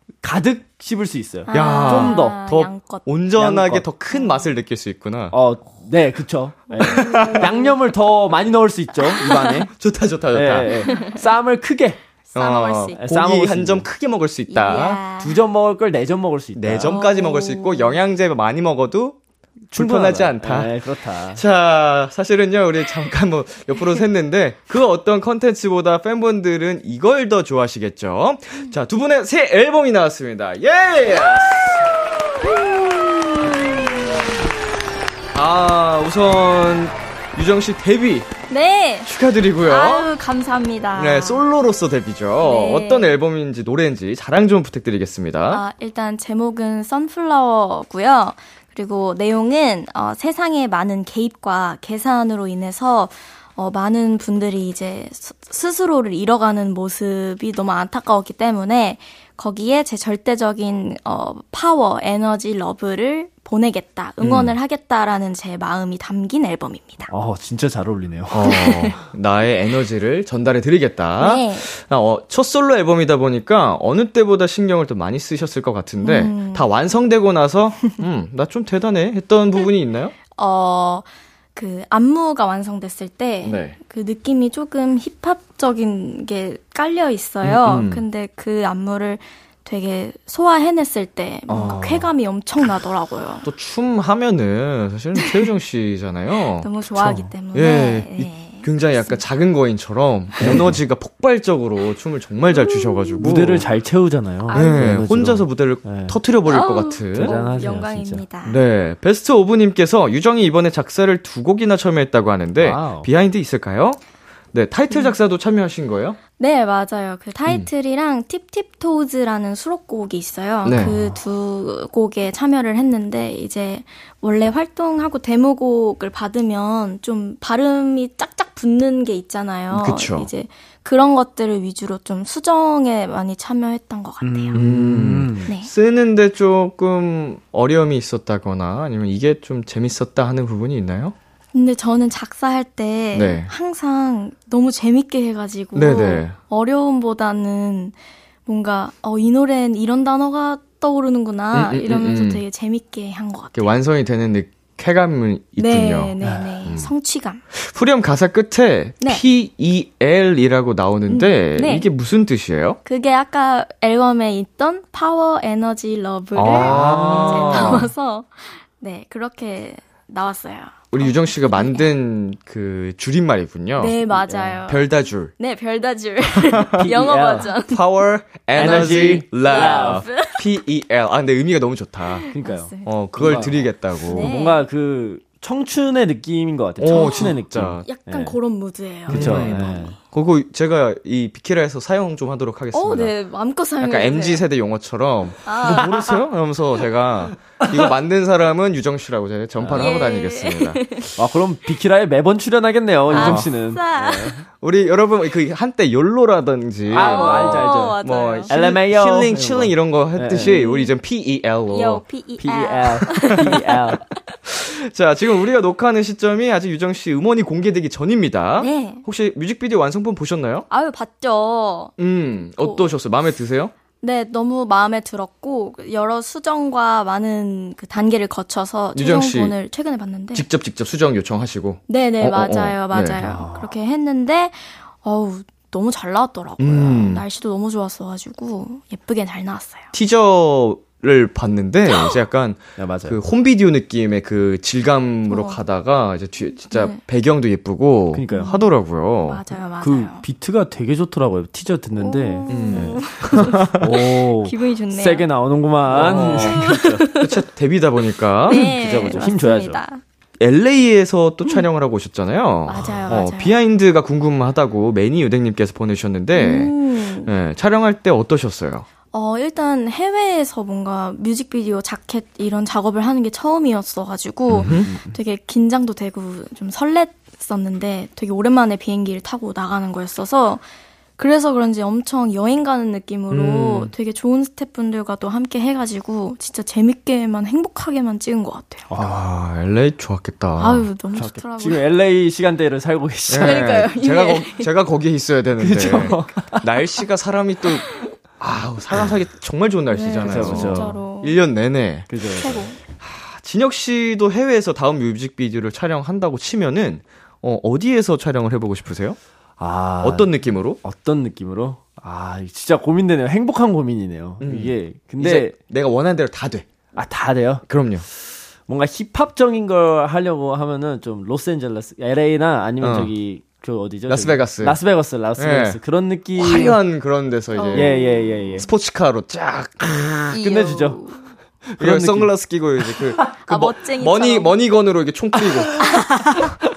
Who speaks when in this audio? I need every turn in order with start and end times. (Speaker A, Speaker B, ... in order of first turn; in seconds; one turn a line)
Speaker A: 0.2-2.4
Speaker B: 1.5-3.1
Speaker C: 1.5-5.3
Speaker A: 3.4-3.9
Speaker B: 4.1-4.5
Speaker A: 5.3-9.7
Speaker B: 6.7-7.7
Speaker C: 6.8-7.5
Speaker B: 9.2-9.7
Speaker C: 9.8-10.9
Speaker A: 10.3-12.0
Speaker B: 10.9-11.2
Speaker B: 12.3-13.0
Speaker C: 12.3-15.0
Speaker A: 13.0-13.9
Speaker B: 14.5-15.4
Speaker A: 15.2-17.0
Speaker C: 16.6-19.2
Speaker B: 16.9-18.0
Speaker A: 19.7-21.4
Speaker C: 19.7-32.5
Speaker B: 31.4-31.8
Speaker B: 33.7-33.9
Speaker C: 35.3-38.3
Speaker B: 38.5-39.1
Speaker C: 39.0-40.1
Speaker B: 39.6-41.4
Speaker C: 41.0-45.6
Speaker B: 42.4-43.1
Speaker B: 45.5-67.1
Speaker C: 64.2-64.5
Speaker A: 67.1-68.6
Speaker C: 68.3-80.2
Speaker B: 68.4-69.0
Speaker B: 71.2-71.7
Speaker B: 76.0-76.7
Speaker B: 80.4-93.5
Speaker C: 83.4-83.8
Speaker C: 87.4-88.0
Speaker C: 91.5-92.1
Speaker C: 93.4-96.7
Speaker B: 95.2-95.5
Speaker B: 96.5-99.2
Speaker A: 97.0-97.3
Speaker C: 97.5-103.7
Speaker A: 100.4-100.7
Speaker B: 102.5-103.2
Speaker A: 103.2-106.2
Speaker B: 104.5-104.9
Speaker C: 104.5-107.4
Speaker B: 106.5-108.6
Speaker A: 107.1-108.2
Speaker C: 108.5-114.0
Speaker A: 112.6-113.1
Speaker C: 114.5-116.2
Speaker B: 114.9-115.2
Speaker B: 116.4-134.6
Speaker C: 120.6-121.1
Speaker C: 129.7-130.3
Speaker A: 134.2-135.5
Speaker C: 134.5-141.2
Speaker B: 141.5-147.9
Speaker C: 143.1-143.5
Speaker C: 145.8-146.3
Speaker B: 148.5-153.7
Speaker C: 151.5-152.4
Speaker C: 153.6-156.1
Speaker B: 155.6-157.4
Speaker C: 157.5-162.8
Speaker B: 161.1-161.9
Speaker B: 162.8-171.9
Speaker C: 166.4-167.9
Speaker A: 166.4-167.8
Speaker C: 170.9-174.0
Speaker B: 173.8-177.8
Speaker A: 174.3-174.6
Speaker C: 174.7-175.3
Speaker A: 176.8-177.5
Speaker C: 177.7-182.3
Speaker A: 178.6-180.1
Speaker B: 178.6-180.5
Speaker B: 182.2-182.9
Speaker A: 182.3-183.6
Speaker C: 182.8-184.3
Speaker B: 184.1-184.7
Speaker A: 184.2-188.3
Speaker C: 186.8-187.9
Speaker B: 186.9-190.0
Speaker A: 189.1-189.9
Speaker C: 189.1-193.1
Speaker B: 192.7-194.4
Speaker C: 193.8-200.8
Speaker B: 195.4-196.0
Speaker A: 199.6-199.9
Speaker B: 199.7-201.1
Speaker A: 201.2-204.4
Speaker C: 203.1-203.5
Speaker B: 203.1-204.4
Speaker C: 204.6-212.0
Speaker A: 206.9-208.0
Speaker B: 206.9-208.6
Speaker A: 208.5-210.6
Speaker B: 210.4-210.9
Speaker B: 211.7-214.0
Speaker A: 212.4-214.0
Speaker C: 214.5-220.7
Speaker B: 218.6-219.0
Speaker B: 220.7-221.9
Speaker C: 222.0-223.7
Speaker B: 222.6-222.9
Speaker B: 224.0-230.5
Speaker C: 228.9-229.6
Speaker C: 230.3-233.2
Speaker B: 231.9-239.9
Speaker A: 233.2-233.7
Speaker C: 236.6-237.2
Speaker C: 239.9-249.4
Speaker B: 241.9-242.2
Speaker A: 242.8-243.2
Speaker B: 245.3-245.6
Speaker B: 246.7-247.0
Speaker A: 248.1-248.6
Speaker B: 248.3-248.6
Speaker B: 249.3-250.2
Speaker A: 249.8-257.1
Speaker B: 252.0-255.3
Speaker C: 252.5-253.8
Speaker C: 255.9-259.2
Speaker B: 256.0-257.4
Speaker B: 258.5-260.0
Speaker A: 258.5-259.8
Speaker C: 260.4-268.9
Speaker B: 262.7-263.6
Speaker B: 266.3-267.3
Speaker B: 269.1-280.6
Speaker C: 274.5-274.9
Speaker A: 274.8-275.1
Speaker B: 281.2-288.9
Speaker C: 283.3-283.9
Speaker A: 288.9-289.2
Speaker C: 289.0-290.9
Speaker B: 290.6-291.9
Speaker A: 291.1-293.7
Speaker C: 293.3-302.2
Speaker B: 293.4-294.7
Speaker A: 295.6-296.6
Speaker B: 299.9-301.4
Speaker A: 300.2-300.9
Speaker A: 302.1-302.6
Speaker B: 302.4-302.8
Speaker C: 303.0-309.2
Speaker A: 309.6-310.3
Speaker C: 310.0-310.8
Speaker A: 310.8-315.6
Speaker C: 314.4-316.7
Speaker A: 317.0-317.6
Speaker C: 317.7-318.1
Speaker A: 318.7-326.8
Speaker C: 322.8-323.1
Speaker C: 324.1-324.8
Speaker C: 325.4-325.8
Speaker C: 326.4-330.4
Speaker B: 327.6-328.2
Speaker A: 327.7-328.6
Speaker A: 330.3-331.0
Speaker B: 330.3-331.3
Speaker A: 331.6-333.3
Speaker C: 331.8-336.0
Speaker B: 333.5-334.6
Speaker A: 335.4-335.8
Speaker B: 335.9-336.5